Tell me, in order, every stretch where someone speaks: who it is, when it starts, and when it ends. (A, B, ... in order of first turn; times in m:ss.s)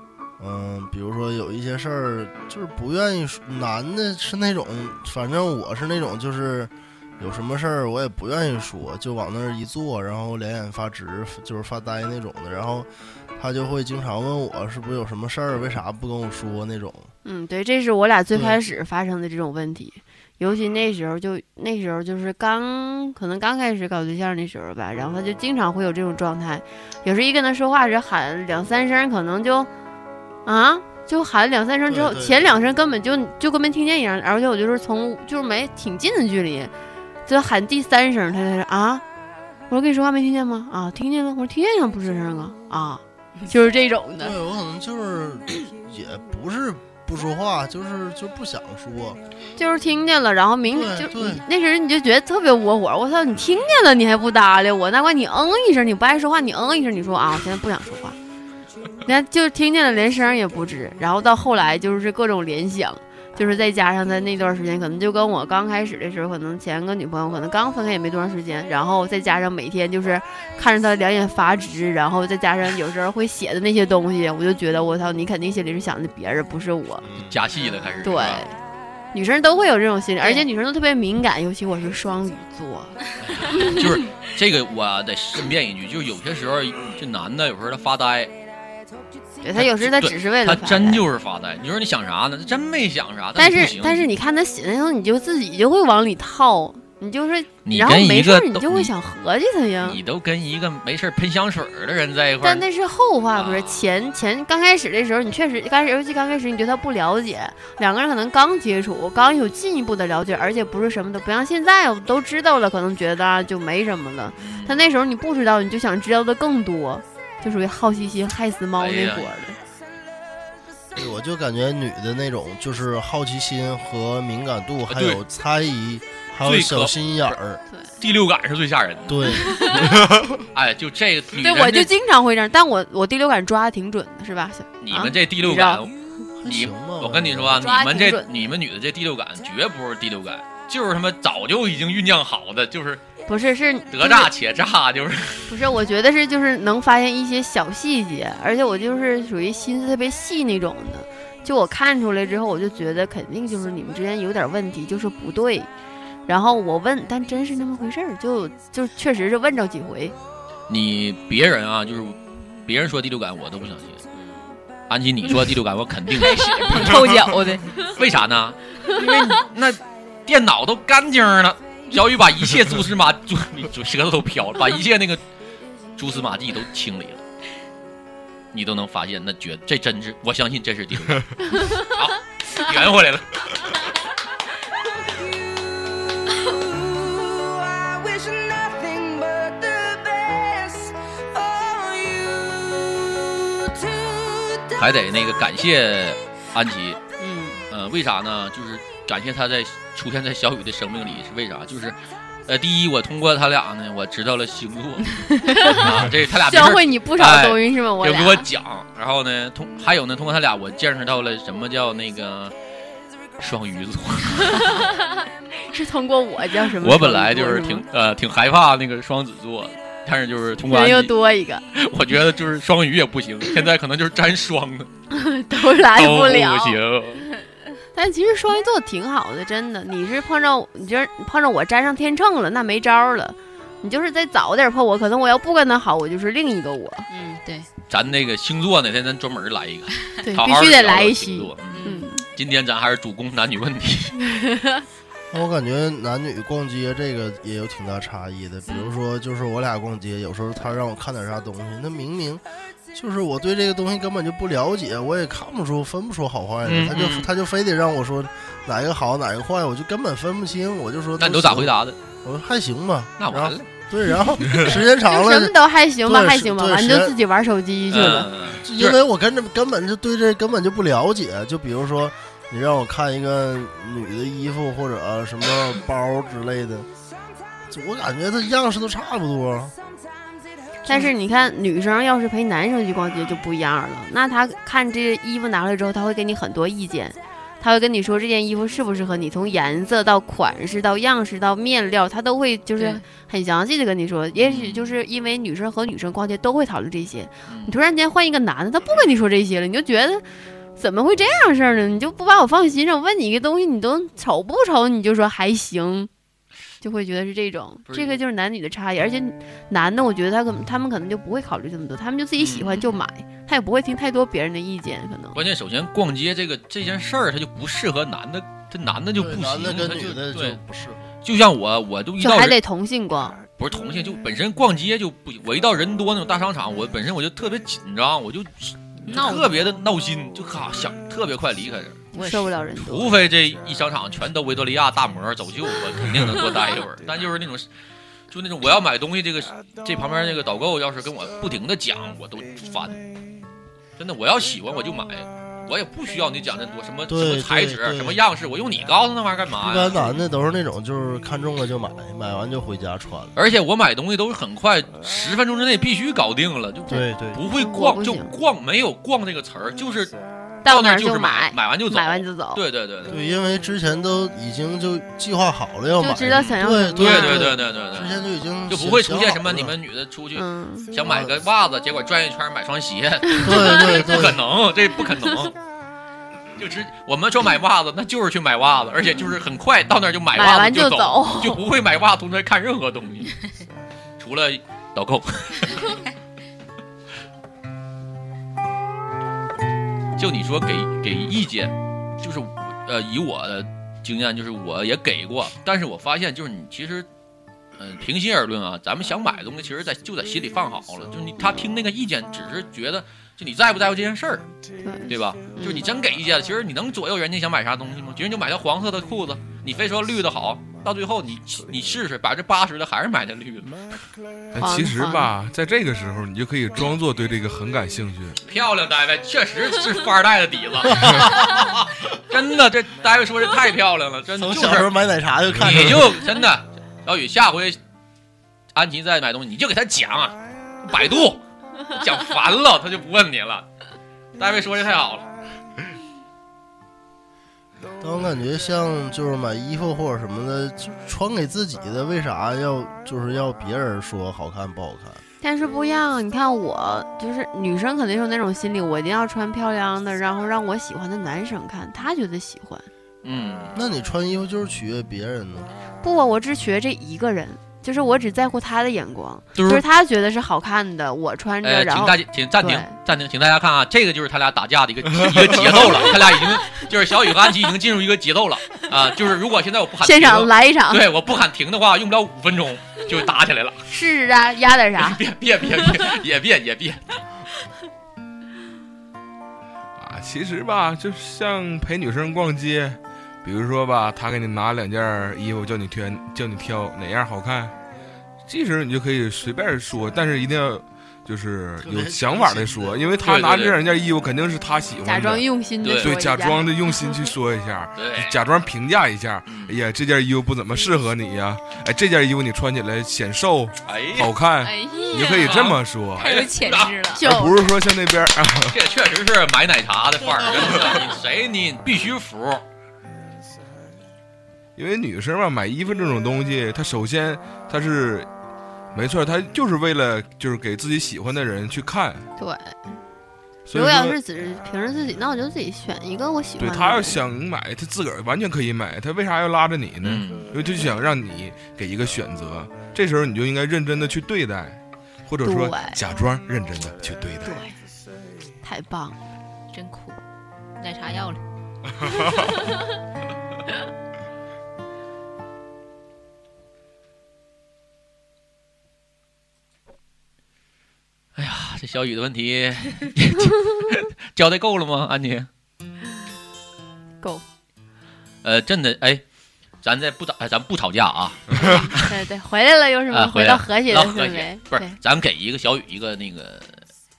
0:00.4-0:17.1 A
0:17.2-0:29.7 B
0:30.4-0:36.7 B
0:31.9-0:32.5 A
0:37.2-0:39.0 B
0:39.7-0:44.4 B
0:44.2-0:49.2 A
0:49.6-0:58.2 B
0:50.7-0:51.4 A
0:59.0-1:17.0 B
1:17.0-1:17.4 A
1:17.3-1:18.4 C
1:18.0-1:18.5 B
1:19.1-1:23.0 B
1:23.2-1:28.3 C
1:23.5-1:23.8 B
1:29.4-1:31.0 B
1:29.5-1:34.1 C
1:33.4-1:40.0 B
1:37.6-1:38.9 C
1:39.8-1:42.6 C
1:42.4-1:59.6 B
1:43.3-1:43.8 C
1:54.4-1:54.8 C
1:58.8-1:59.3 C
2:00.9-2:07.6 A
2:04.9-2:05.2 C
2:06.4-2:07.4 C
2:08.0-2:09.6 C
2:09.1-2:09.9 A
2:10.5-2:11.9 C
2:11.4-2:15.9 B
2:14.8-2:15.9 C
2:16.4-2:17.6 A
2:16.4-2:23.0 C
2:17.6-2:18.3 B
2:23.3-2:24.3 B
2:23.9-2:25.5 C
2:25.5-2:35.7 B
2:36.3-2:40.1 B
2:40.7-2:44.0 C
2:44.9-2:46.9 C
2:46.1-2:47.7 D
2:47.8-2:55.2 C
2:56.0-2:57.2 C
2:58.5-3:03.8 C
3:05.0-3:15.0 E
3:14.8-3:17.0 C
3:17.2-3:17.6 B
3:17.7-3:32.5 C
3:25.5-3:25.8 B
3:26.4-3:28.5 B
3:33.4-3:34.9 C
3:34.5-3:37.8 B
3:36.8-3:41.1 C
3:40.6-3:41.6 B
3:41.7-3:44.9 C
3:45.1-3:46.8 B
3:45.9-3:47.2 C
3:47.9-3:57.1 B
3:57.1-3:57.7 D
3:57.9-4:04.2 C
4:00.2-4:02.2 B
4:01.7-4:02.0 D
4:04.2-4:04.8 B
4:05.3-4:27.1 A
4:16.6-4:17.3 C
4:21.2-4:22.0 C
4:23.2-4:23.6 C
4:24.5-4:28.3 B
4:27.9-4:29.0 C
4:28.6-4:36.9 A
4:37.7-4:39.7 A
4:40.8-5:00.2 B
4:52.8-4:53.0 D
4:54.4-4:54.9 C
4:57.5-4:57.7 C
5:00.8-5:06.1 B
5:06.8-5:15.4 B
5:07.9-5:08.2 C
5:12.4-5:13.0 C
5:15.3-5:20.6 C
5:19.2-5:21.0 A
5:21.2-5:22.6 C
5:22.2-5:23.4 B
5:23.6-5:32.0 C
5:29.1-5:29.5 D
5:32.1-5:32.5 D
5:32.1-5:33.1 B
5:32.8-5:37.7 C
5:38.3-5:43.0 C
5:44.0-5:50.2 C
5:47.1-5:48.2 A
5:49.6-5:53.3 A
5:53.4-6:00.1 C
5:56.9-5:57.4 A
5:57.5-5:58.3 B
6:00.6-6:02.6 B
6:00.6-6:03.2 C
6:03.0-6:09.7 A
6:06.0-6:07.5 B
6:06.3-6:15.6 C
6:10.4-6:10.9 B
6:11.0-6:11.3 A
6:13.4-6:14.4 A
6:16.6-6:23.3 C
6:20.3-6:21.6 B
6:24.2-6:26.0 C
6:30.2-6:37.1 C
6:37.8-6:44.5 C
6:44.8-6:45.9 B
6:45.1-6:54.0 C
6:54.5-6:58.4 F
6:54.6-6:55.3 B
6:58.4-7:04.9 C
7:04.4-7:06.2 A
7:05.6-7:07.8 C
7:08.7-7:13.7 C
7:14.4-7:15.3 C
7:18.0-7:25.2 A
7:25.4-7:32.9 B
7:33.2-7:33.7 C
7:33.7-7:35.7 A
7:36.0-7:42.9 B
7:39.6-7:39.8 C
7:41.6-7:53.8 C
7:50.0-7:51.0 B
7:53.9-7:55.2 B
7:55.0-7:57.2 C
8:00.0-8:07.7 F
8:08.5-8:26.4 F
8:11.8-8:13.0 A
8:13.2-8:13.8 C
8:15.0-8:17.2 B
8:15.8-8:16.1 C
8:18.0-8:18.4 C
8:19.5-8:19.8 C
8:23.8-8:24.3 C
8:24.6-8:25.5 B
8:24.9-8:25.4 D
8:25.4-8:27.0 C
8:26.2-8:27.2 D
8:27.1-8:27.8 B
8:27.2-8:28.8 F
8:28.7-8:32.6 C
8:34.8-8:38.3 F
8:38.9-8:42.3 F
8:42.4-8:42.9 B
8:43.7-8:44.2 F
8:43.7-8:47.2 B
8:46.6-8:57.6 F
8:50.0-8:50.5 C
8:55.4-8:56.0 B
8:57.4-8:57.8 B
8:58.6-8:59.2 B
8:59.7-9:00.2 D
9:00.8-9:01.4 D
9:01.9-9:02.5 F
9:11.4-9:15.5 C
9:18.4-9:19.2 C
9:19.8-9:22.2 C
9:21.5-9:21.8 F
9:21.5-9:25.0 B
9:23.1-9:26.8 C